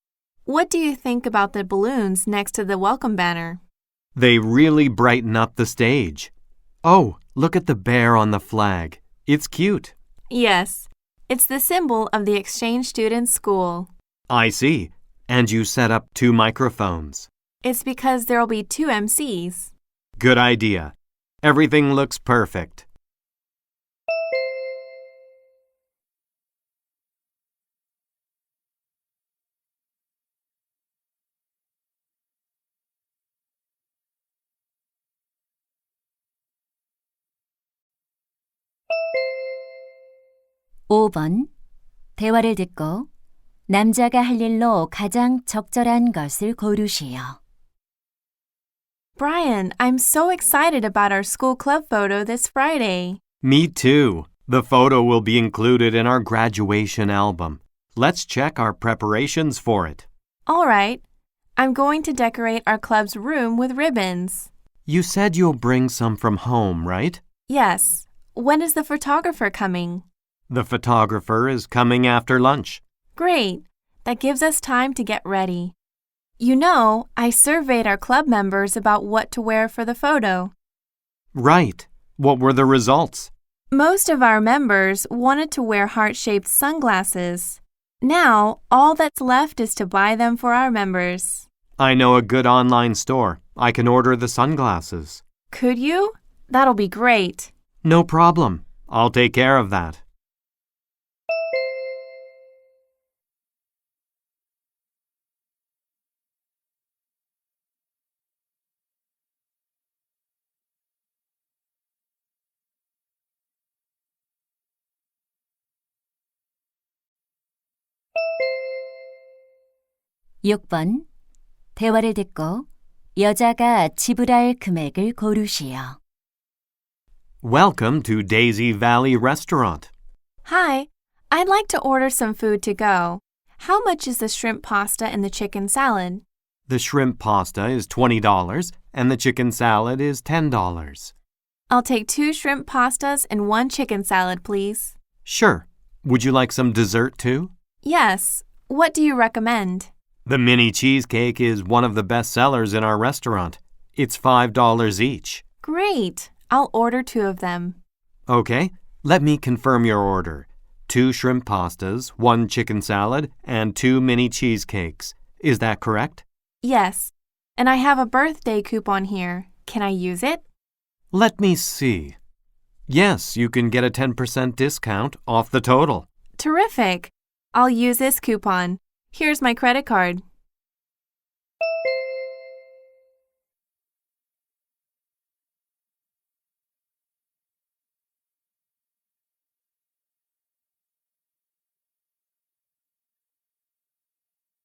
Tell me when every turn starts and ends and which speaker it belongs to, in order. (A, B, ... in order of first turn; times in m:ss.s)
0:00.5-0:03.6 A
0:04.2-0:06.3 B
0:06.8-0:09.9 B
0:10.3-0:13.9 A
0:14.3-0:17.3 B
0:17.6-0:19.7 A
0:20.2-0:22.9 B
0:40.9-0:41.5 C
0:42.2-0:43.1 C
0:43.7-0:47.4 C
0:49.2-0:53.2 A
0:53.4-1:00.1 B
1:00.5-1:01.0 A
1:01.6-1:04.5 A
1:04.9-1:07.2 B
1:07.5-1:10.0 A
1:10.5-1:12.8 B
1:13.2-1:15.8 A
1:16.4-1:20.5 A
1:21.3-1:23.3 B
1:23.7-1:31.4 A
1:31.8-1:35.2 B
1:35.5-1:37.5 A
1:37.8-1:40.0 B
2:00.4-2:01.0 C
2:01.8-2:06.0 C
2:07.4-2:09.9 B
2:10.4-2:16.2 A
2:16.7-2:21.1 B
2:21.7-2:25.0 A
2:25.2-2:27.5 B
2:27.8-2:29.9 A
2:30.3-2:35.4 B
2:35.6-2:37.8 A
2:38.3-2:46.2 B
2:46.6-2:50.4 A
2:51.1-2:52.2 B
2:52.9-2:56.1 B
2:56.4-3:00.2 A